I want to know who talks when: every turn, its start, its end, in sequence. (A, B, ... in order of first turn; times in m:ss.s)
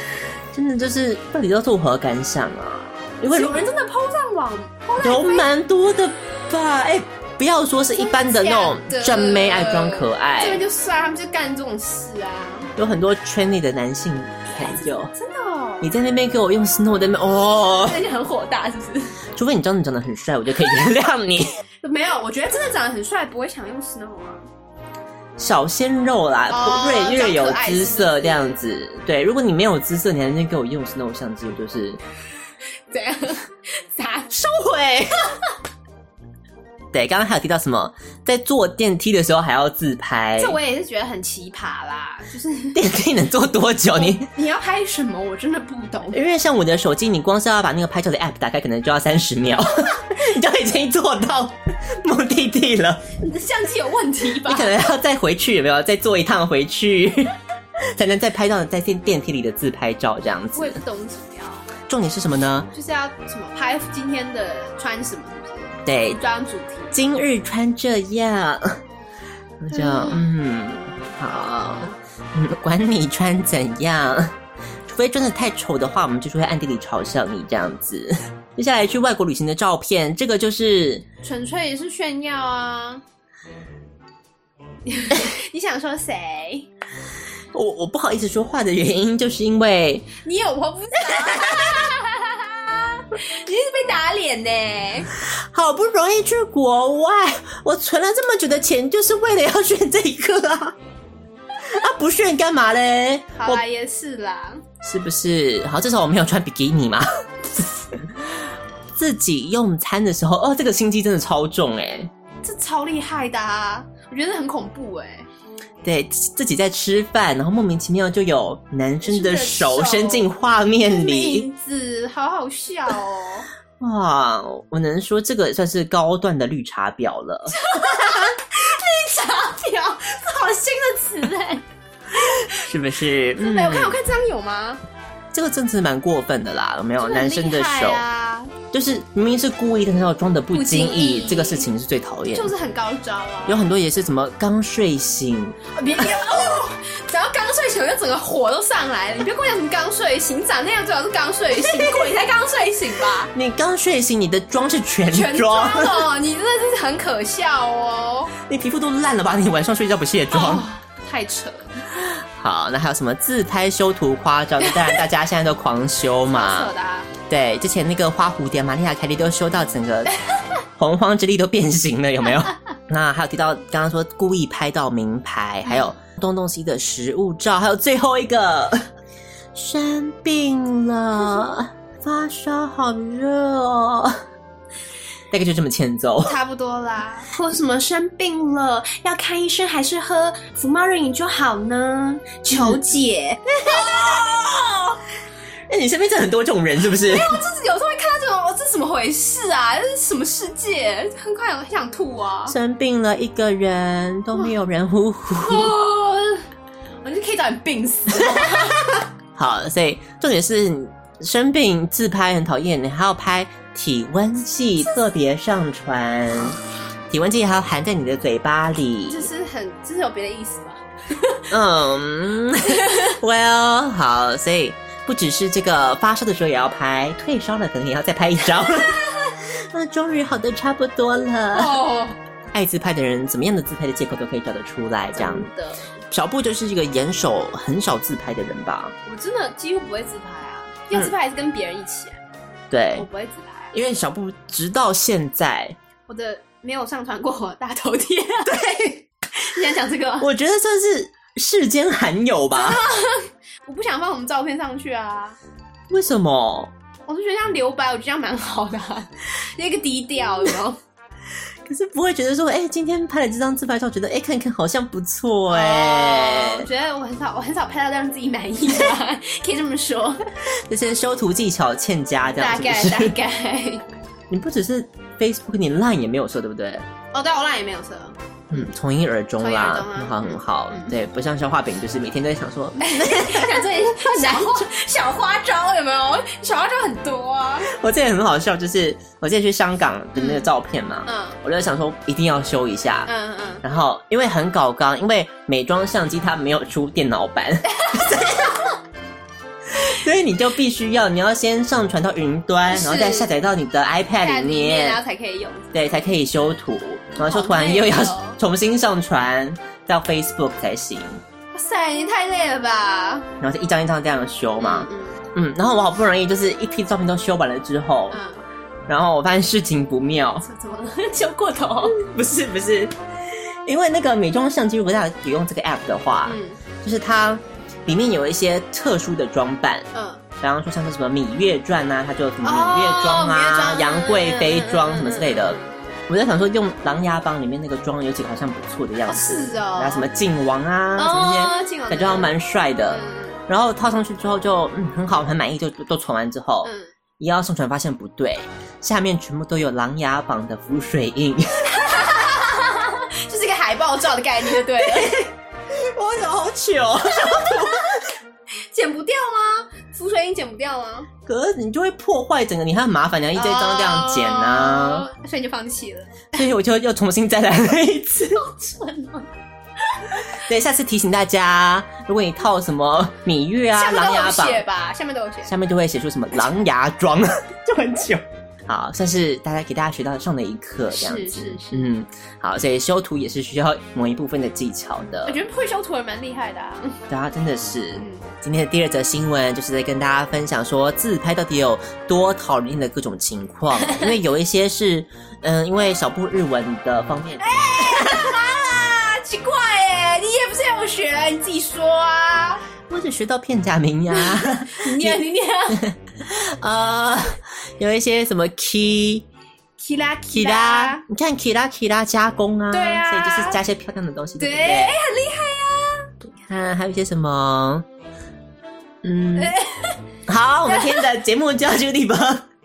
0:00.5-0:03.7 A
0:03.3-0:05.5 B
0:05.0-0:10.6 A
0:08.0-0:12.7 B
0:12.8-0:15.1 A
0:14.6-0:15.9 B
0:15.8-0:18.0 A
0:17.8-0:19.2 B
0:19.4-0:21.6 A
0:21.8-0:24.5 B
0:25.4-0:32.0 A
0:26.5-0:28.6 B
0:32.9-0:35.1 B
0:36.9-0:40.6 A
0:40.4-0:42.8 B
0:42.7-0:44.3 A
0:44.0-0:46.2 B
0:46.1-0:53.0 A
0:53.2-0:54.8 B
0:54.5-0:57.4 A
0:57.9-1:00.8 A
1:00.6-1:01.7 B
1:01.9-1:02.7 A
1:02.7-1:07.0 B
1:05.8-1:06.2 A
1:06.9-1:08.8 A
1:09.6-1:14.4 A
1:09.7-1:10.3 B
1:11.0-1:12.0 B
1:14.9-1:21.0 A
1:21.2-1:23.0 B
1:24.9-1:26.7 B
1:27.5-1:30.1 A
1:30.2-1:35.1 B
1:35.5-1:40.8 A
1:41.6-1:43.6 A
1:43.4-1:44.6 B
1:44.8-1:48.3 A
1:49.0-1:52.1 A
1:52.4-1:55.3 B
1:55.8-2:01.5 A
1:59.0-2:00.3 B
2:00.9-2:03.5 B
2:03.8-2:07.6 A
2:07.5-2:11.6 B
2:12.2-2:12.6 B
2:12.4-2:14.0 A
2:13.4-2:14.8 B
2:15.3-2:18.0 A
2:17.0-2:18.5 B
2:18.7-2:22.5 A
2:20.5-2:21.7 B
2:22.3-2:23.6 B
2:23.5-2:25.6 A
2:25.8-2:33.3 B
2:33.3-2:36.0 A
2:35.1-2:38.3 B
2:38.4-2:40.6 A
2:40.3-2:41.8 B
2:42.2-2:46.7 A
2:44.6-2:45.0 B
2:46.3-2:47.1 B
2:47.3-2:50.2 A
2:50.8-2:58.9 A
2:59.6-3:04.2 A
3:05.3-3:06.4 A
3:06.2-3:15.0 B
3:12.5-3:12.8 A
3:13.7-3:14.2 A
3:15.7-3:17.4 A
3:17.1-3:22.6 B
3:22.5-3:25.7 A
3:25.4-3:26.5 B
3:27.0-3:29.0 B
3:28.2-3:36.6 A
3:37.1-3:39.3 A
3:39.1-3:41.4 B
3:41.5-3:51.8 A
3:51.5-3:52.2 B
3:52.5-3:55.5 A
3:55.2-3:55.9 B
3:56.1-3:58.9 A
3:59.1-4:02.2 B
4:02.7-4:03.1 A
4:03.0-4:03.7 B
4:03.7-4:05.8 A
4:06.1-4:08.7 B
4:08.5-4:09.0 A
4:09.4-4:10.3 B
4:10.2-4:12.8 A
4:12.6-4:15.4 B
4:15.9-4:16.7 A
4:17.1-4:20.8 B
4:21.7-4:26.7 A
4:25.5-4:30.2 B
4:30.7-4:33.1 A
4:32.4-4:33.8 B
4:34.3-4:36.9 A
4:37.1-4:38.7 B
4:38.5-4:44.6 A
4:39.4-4:40.9 B
4:42.8-4:47.7 B
4:47.6-4:53.1 A
4:50.2-4:50.5 B
4:51.1-4:51.4 B
4:53.1-4:53.6 B
4:53.6-4:58.4 A
4:57.7-4:58.7 B
4:59.8-5:05.0 A
5:02.7-5:03.3 B
5:04.2-5:05.8 B
5:05.7-5:11.2 A
5:07.2-5:08.4 B
5:11.5-5:13.3 B
5:13.4-5:18.2 A
5:14.6-5:15.2 B
5:18.1-5:18.4 B
5:18.9-5:20.5 A
5:20.4-5:22.0 B
5:21.9-5:22.9 A
5:23.7-5:29.9 A
5:26.3-5:26.6 B
5:29.9-5:30.2 B
5:30.4-5:51.8 A
5:32.4-5:35.7 B
5:39.1-5:40.1 B
5:41.0-5:42.3 B
5:42.9-5:43.4 B
5:46.6-5:46.9 B
5:51.7-5:55.2 B
5:54.8-5:58.0 A
5:57.3-5:57.9 B
5:58.7-6:01.1 B
6:01.3-6:05.1 A
6:03.4-6:06.4 B
6:06.3-6:08.4 A
6:08.4-6:09.3 B
6:10.4-6:14.6 A
6:13.8-6:15.5 B
6:15.5-6:25.4 A
6:20.9-6:21.9 B
6:25.3-6:27.0 B
6:27.1-6:38.2 A
6:28.0-6:28.2 B
6:37.4-6:42.6 B
6:42.9-6:45.2 A
6:44.2-6:45.8 B
6:45.7-6:49.3 A
6:49.8-6:51.0 B
6:50.3-6:55.0 A
6:52.7-6:53.6 B
6:54.4-6:56.1 B
6:56.3-6:57.9 A
6:59.0-6:59.6 A
6:59.4-7:00.0 B
7:00.3-7:02.5 A
7:00.7-7:01.0 B